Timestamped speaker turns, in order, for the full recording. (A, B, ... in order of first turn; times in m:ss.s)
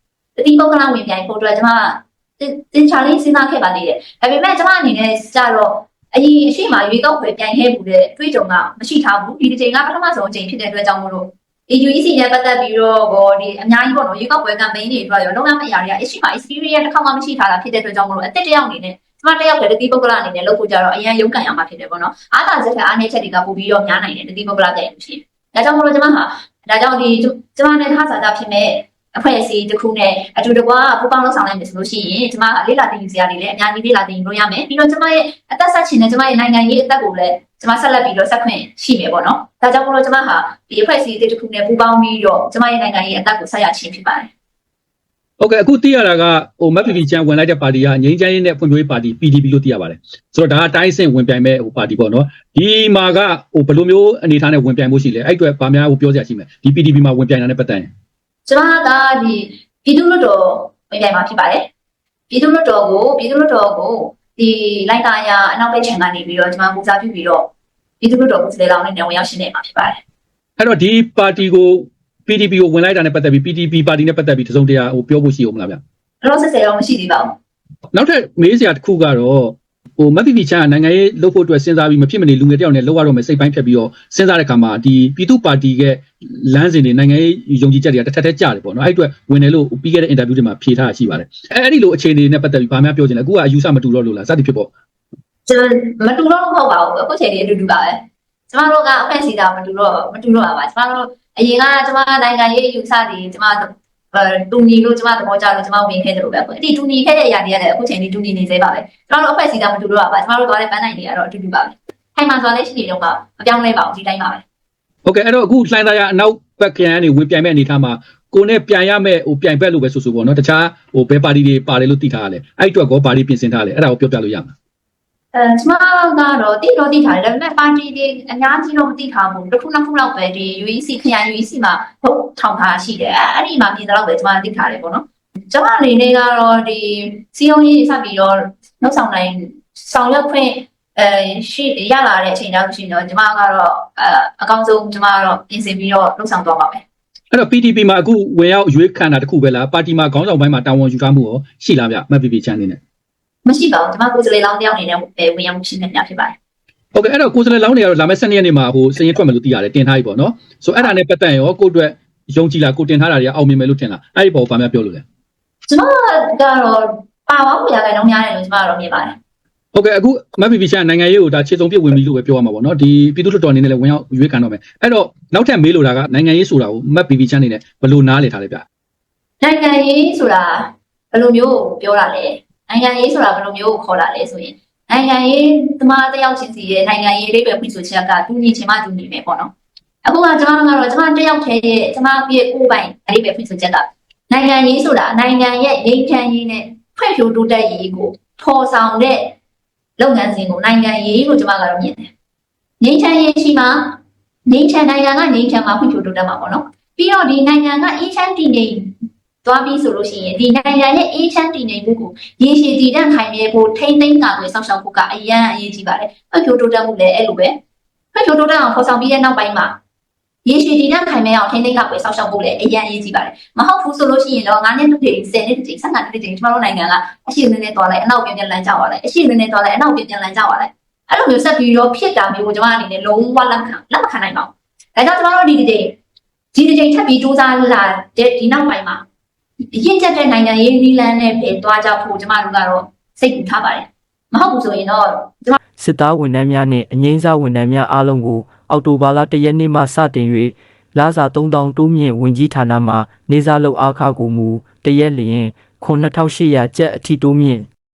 0:00.4-0:44.3 A
0:45.4-0:57.9 B
0:58.5-1:01.7 A
1:02.3-1:10.0 A
1:10.6-1:15.8 B
1:16.2-1:17.4 A
1:17.9-1:34.7 B
1:35.5-1:54.4 A
1:55.0-2:04.5 B
2:05.3-2:26.8 A
2:27.3-2:32.8 B
2:33.4-2:36.4 A
2:36.9-2:45.0 B
2:45.7-2:49.2 A
2:49.7-2:58.6 B
2:59.4-3:09.5 A
3:10.0-3:19.4 A
3:20.0-3:22.1 A
3:22.8-3:37.6 A
3:38.1-3:39.8 A
3:40.4-3:56.0 A
3:56.5-3:59.0 A
3:59.7-4:05.6 A
4:05.8-4:17.7 C